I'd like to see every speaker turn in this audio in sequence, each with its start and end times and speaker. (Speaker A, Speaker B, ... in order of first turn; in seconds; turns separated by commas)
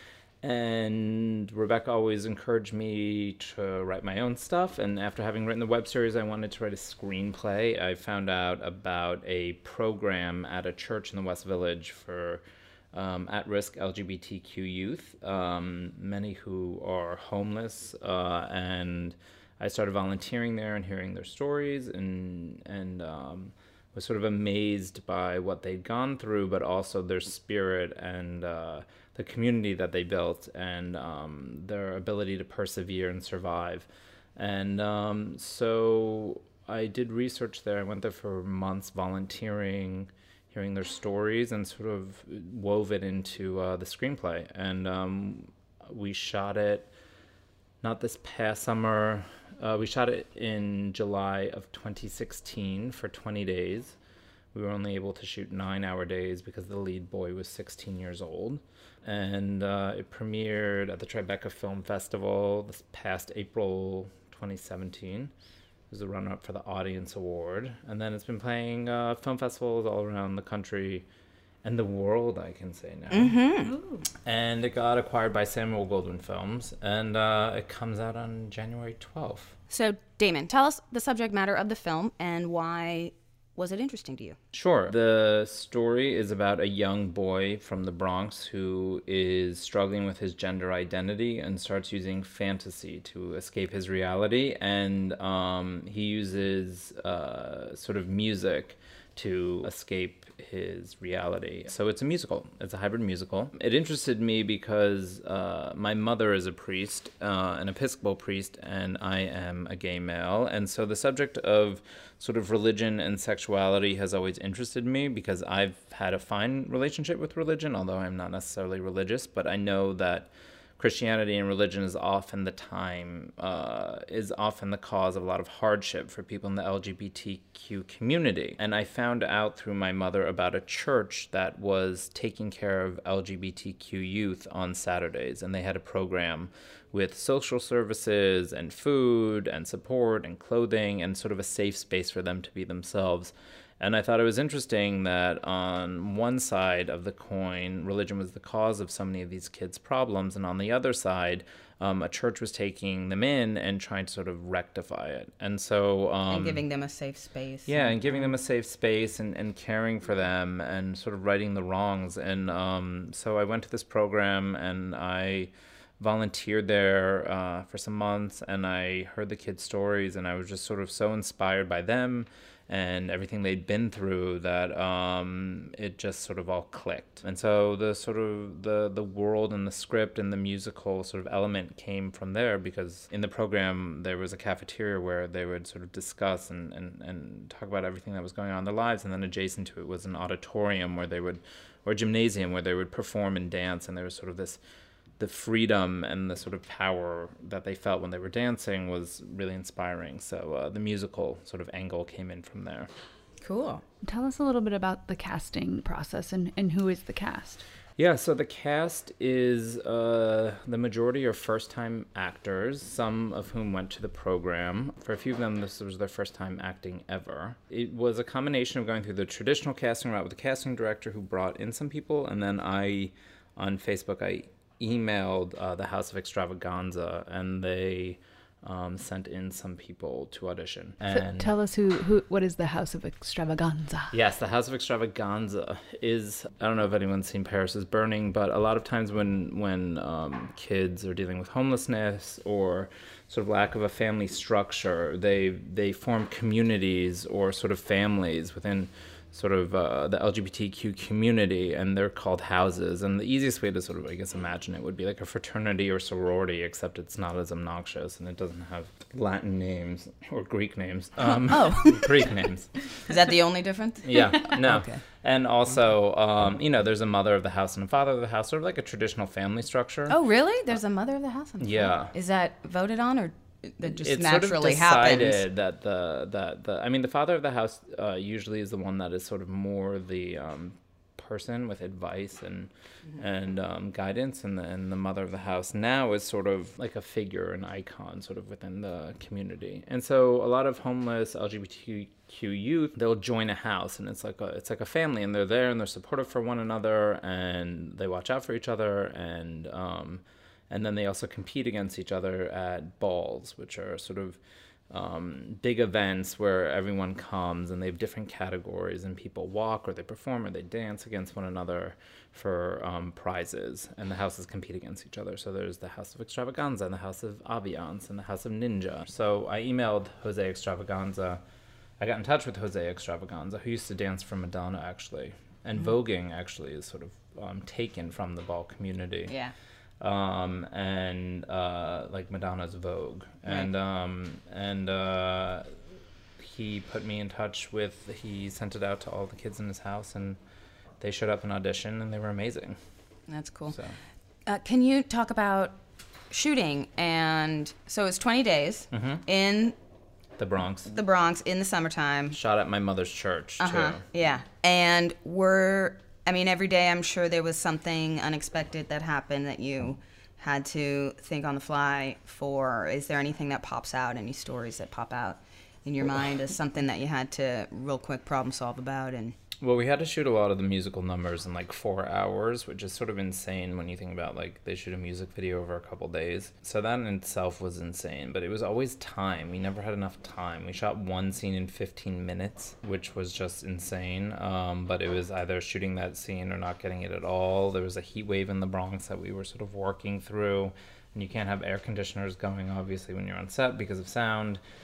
Speaker A: 0.4-46.9, Speaker A: 47.8-54.0, Speaker A: 54.5-65.3, Speaker A: 65.9-71.0, Speaker A: 71.6-73.4, Speaker B: 73.1-73.8, Speaker C: 73.7-74.0, Speaker A: 74.2-79.5, Speaker B: 79.7-84.4, Speaker A: 84.5-156.6, Speaker B: 156.3-158.3, Speaker A: 157.7-194.6, Speaker A: 195.2-202.9, Speaker B: 203.4-203.8, Speaker C: 204.0-207.6, Speaker A: 208.0-231.5, Speaker C: 231.1-234.1, Speaker A: 234.1-263.1, Speaker B: 261.5-262.3, Speaker B: 263.1-265.0, Speaker A: 264.0-270.2, Speaker B: 270.1-275.4, Speaker A: 271.6-272.1, Speaker A: 273.8-304.4, Speaker A: 304.9-321.4, Speaker A: 322.0-329.3, Speaker B: 329.3-329.5, Speaker A: 330.0-335.7, Speaker A: 336.4-340.4, Speaker A: 341.0-342.8, Speaker B: 343.3-343.8, Speaker A: 343.7-344.0, Speaker B: 344.4-345.8, Speaker B: 346.3-349.8, Speaker A: 348.9-349.2, Speaker A: 350.4-350.9, Speaker B: 350.9-352.4, Speaker A: 352.3-354.0, Speaker B: 353.6-369.4, Speaker A: 369.6-394.6